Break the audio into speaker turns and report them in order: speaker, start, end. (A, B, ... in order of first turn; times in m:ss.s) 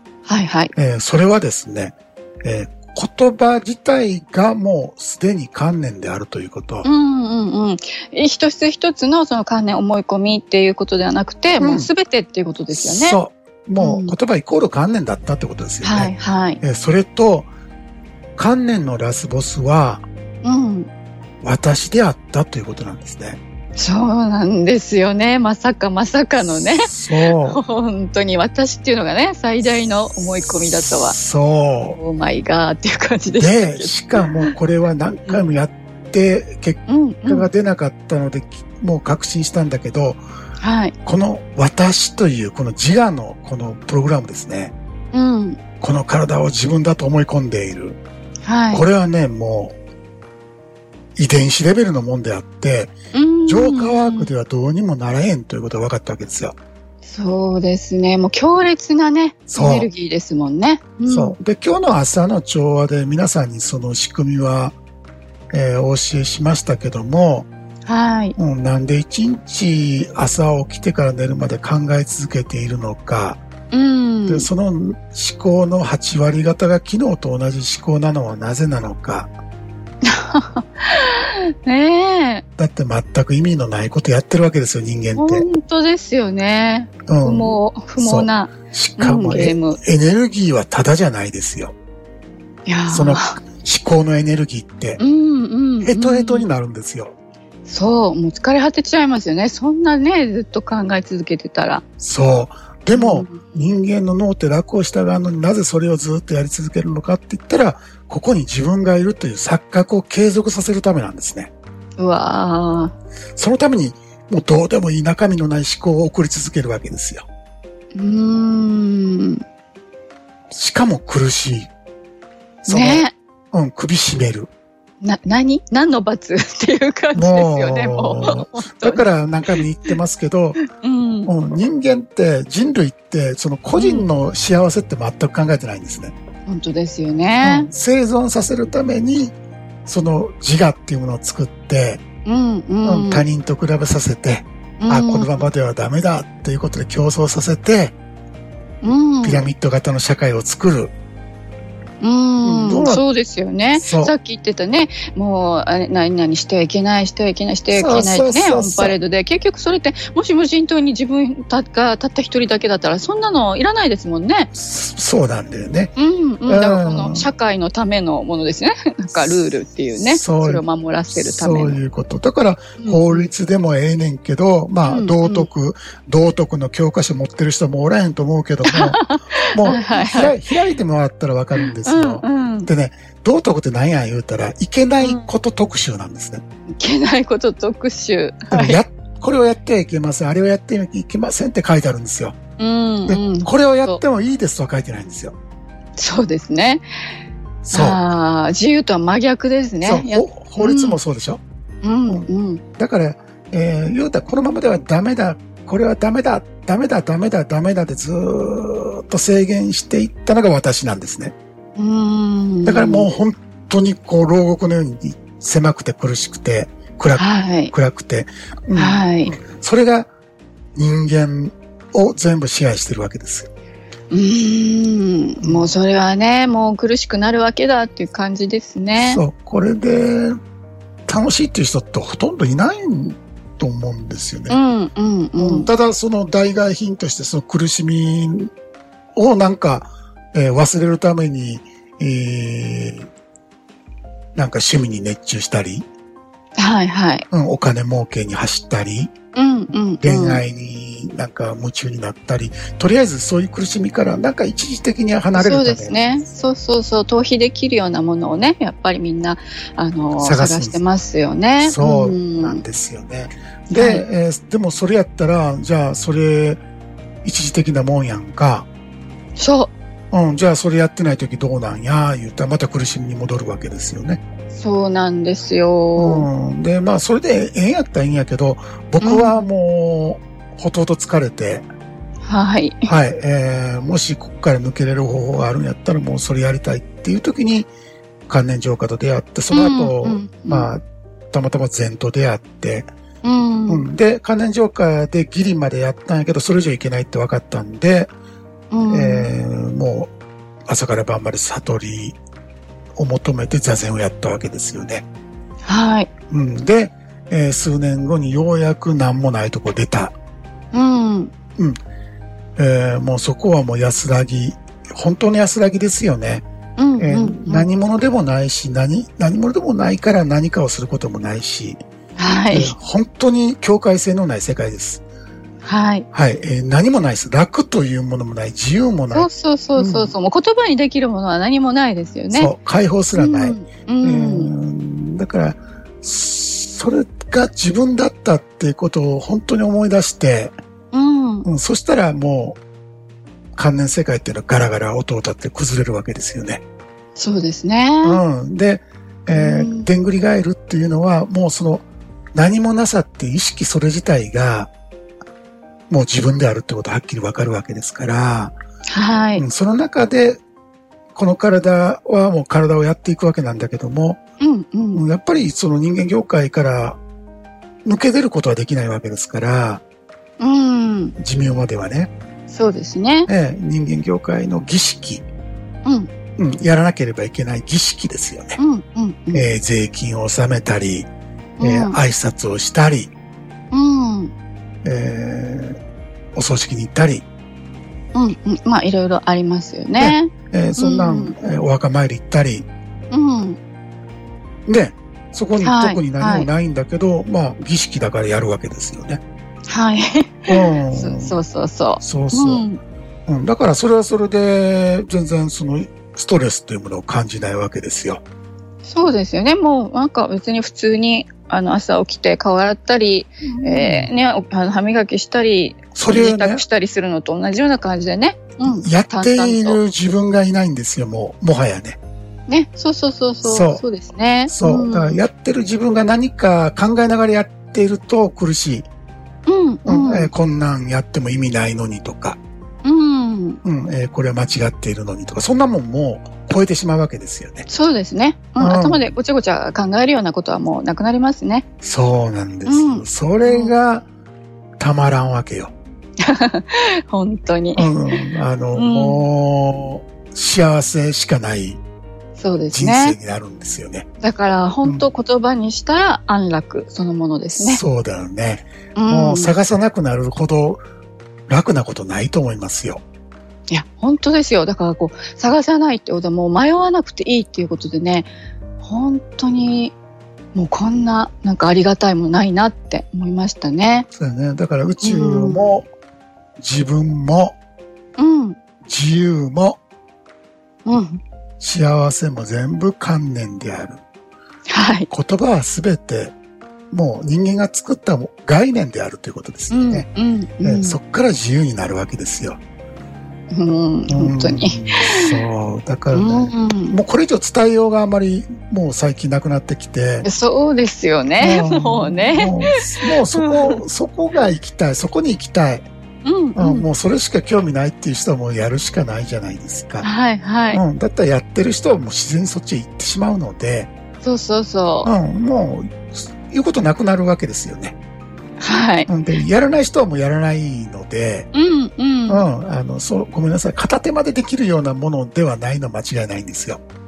0:00.2-0:00.7 A
0:00.8-0:06.9 B
0:06.8-0:13.2 A
0:11.6-0:11.9 B
0:12.7-0:17.5 B
0:13.8-0:14.2 A
0:15.8-0:16.6 A
0:18.4-0:20.0 B
0:20.4-0:20.9 A
0:21.4-0:23.4 B
0:23.8-0:31.2 A
0:26.7-0:27.6 B
0:30.9-0:32.0 B
0:31.9-0:34.5 A
0:33.3-0:40.2 B
0:36.9-0:37.5 A
0:40.6-0:40.9 A
0:41.0-0:44.7 B
0:45.1-0:45.6 A
0:45.8-0:48.0 B
0:48.4-0:48.8 A
0:48.7-0:49.8 B
0:51.2-0:52.9 B
0:53.1-0:54.3 A
0:53.5-0:56.6 B
0:57.0-1:01.4 A
0:59.5-0:59.9 B
1:01.1-1:04.8 B
1:05.5-1:07.5 B
1:07.8-1:08.4 A
1:08.4-1:13.4 B
1:13.7-1:14.5 A
1:14.3-1:19.3 B
1:20.0-1:22.4 A
1:22.6-1:25.4 B
1:25.2-1:29.8 A
1:27.1-1:31.7 B
1:32.6-1:33.4 A
1:32.9-1:35.0 B
1:35.0-1:36.5 A
1:35.8-1:37.1 B
1:37.6-1:41.8 A
1:42.0-1:51.5 B
1:42.9-1:43.7 A
1:52.0-1:52.9 A
1:53.4-1:57.2 B
1:57.9-1:59.4 A
2:00.5-2:01.7 B
2:02.7-2:03.1 A
2:02.7-2:04.5 B
2:05.0-2:09.0 A
2:07.1-2:10.6 B
2:10.7-2:11.3 A
2:11.2-2:16.1 B
2:13.8-2:14.1 A
2:16.5-2:17.7 A
2:17.4-2:22.0 B
2:22.2-2:23.2 A
2:22.8-2:28.0 B
2:24.8-2:25.3 A
2:28.8-2:29.5 A
2:29.2-2:30.9 B
2:32.0-2:44.5 A
2:32.4-2:33.0 B
2:33.7-2:34.1 B
2:37.7-2:39.0 B
2:44.5-2:45.9 B
2:46.0-2:51.8 A
2:46.4-2:47.3 B
2:50.0-3:06.4 B
2:52.8-2:53.3 A
2:54.8-2:55.5 A
2:58.6-3:00.6 A
3:01.6-3:02.7 A
3:05.0-3:05.3 A
3:06.7-3:08.8 A
3:08.5-3:12.4 B
3:12.6-3:14.0 A
3:13.0-3:15.4 B
3:16.0-3:16.8 A
3:17.6-3:18.0 B
3:17.7-3:21.0 A
3:19.8-3:21.4 B
3:21.8-3:22.6 A
3:22.1-3:31.3 B
3:31.8-3:33.1 A
3:32.6-3:40.1 B
3:37.2-3:37.7 A
3:38.7-3:39.3 A
3:40.7-3:43.5 B
3:44.1-3:49.2 A
3:45.4-3:45.7 B
3:48.9-3:50.4 B
3:51.1-3:54.6 B
3:54.5-3:55.7 A
3:55.4-3:58.5 B
3:59.2-4:03.1 B
4:04.3-4:05.9 B
4:06.6-4:07.2 A
4:07.3-4:09.1 B
4:09.3-4:10.4 A
4:10.0-4:16.0 B
4:15.3-4:22.6 A
4:20.2-4:20.8 B
4:21.6-4:26.6 B
4:23.7-4:24.1 A
4:27.2-4:28.7 B
4:29.4-4:29.7 A
4:30.1-4:34.2 B
4:34.5-4:36.3 A
4:36.0-4:41.7 B
4:39.0-4:39.5 A
4:42.2-4:42.9 A
4:42.9-4:47.7 B
4:48.3-4:52.9 B
4:49.5-4:50.7 A
4:53.2-4:53.8 A
4:53.7-4:58.1 B
4:58.7-4:59.3 A
4:58.9-5:00.1 B
5:00.7-5:02.2 B
5:03.0-5:05.0 B
5:05.6-5:06.1 A
5:06.3-5:10.1 B
5:10.7-5:11.3 A
5:12.6-5:16.4 B
5:16.8-5:17.7 A
5:17.0-5:21.8 B
5:22.2-5:22.8 A
5:22.5-5:25.0 B
5:25.6-5:26.1 A
5:26.1-5:30.1 B
5:29.1-5:32.5 A
5:32.3-5:40.5 B
5:33.1-5:34.5 A
5:40.9-5:41.4 A
5:41.4-5:42.6 B
5:43.5-5:46.6 B
5:47.2-5:48.2 A
5:48.0-5:54.7 B
5:49.3-5:49.9 A
5:55.9-5:58.6 B
5:58.9-5:59.4 A
5:59.4-6:00.4 B
6:01.1-6:04.2 B
6:04.4-6:05.0 A
6:04.9-6:07.0 B
6:07.8-6:09.8 B
6:10.4-6:11.2 A
6:11.2-6:12.1 B
6:12.5-6:13.3 A
6:13.3-6:15.2 B
6:15.8-6:16.1 A
6:16.4-6:18.6 B
6:18.6-6:19.5 A
6:19.3-6:21.1 B
6:21.6-6:22.0 A
6:21.6-6:23.1 B
6:23.7-6:24.3 A
6:24.8-6:25.8 B
6:26.3-6:27.2 B
6:28.1-6:31.4 A
6:30.0-6:32.7 B
6:33.1-6:33.6 A
6:34.7-6:39.2 B
6:35.6-6:36.5 A
6:39.7-6:42.8 A
6:40.5-6:41.4 B
6:42.0-6:42.7 B
6:43.3-6:48.2 B
6:48.8-6:59.8 A
6:53.5-6:54.1 B
6:55.9-6:56.6 B
6:58.6-7:02.0 B
7:02.5-7:05.2 A
7:03.4-7:03.8 B
7:04.5-7:08.9 B
7:09.4-7:10.3 A
7:09.8-7:12.4 B
7:12.8-7:13.6 A
7:13.6-7:17.7 B
7:17.7-7:21.6 A
7:18.6-7:19.1 B
7:21.8-7:24.1 B
7:22.6-7:23.7 A
7:24.8-7:25.7 B
7:26.2-7:28.2 A
7:27.7-7:31.8 B
7:28.7-7:29.2 A
7:32.4-7:33.2 A
7:32.7-7:34.1 B
7:34.2-7:37.8 A
7:37.6-7:40.8 B
7:38.9-7:39.5 A
7:41.5-7:43.0 B
7:43.7-7:49.9 A
7:50.5-7:54.1 A
7:54.1-7:55.9 B
7:55.0-7:55.7 A
7:56.6-7:57.6 B
7:58.2-7:58.6 A
7:58.8-7:59.8 B
8:00.8-8:01.2 A
8:01.6-8:04.0 B
8:04.7-8:05.1 A
8:05.1-8:06.3 B
8:06.9-8:10.1 B
8:09.7-8:11.0 A
8:10.6-8:12.6 B
8:13.5-8:15.4 A
8:14.1-8:20.3 B
8:16.1-8:17.0 A
8:20.2-8:23.8 A
8:21.4-8:25.9 B
8:26.2-8:26.9 A
8:26.6-8:30.1 B
8:30.0-8:30.8 A
8:30.7-8:33.9 B
8:34.2-8:35.1 A
8:35.0-8:38.0 B
8:38.6-8:39.1 A
8:39.1-8:41.5 B
8:41.5-8:42.4 A
8:42.3-8:46.8 B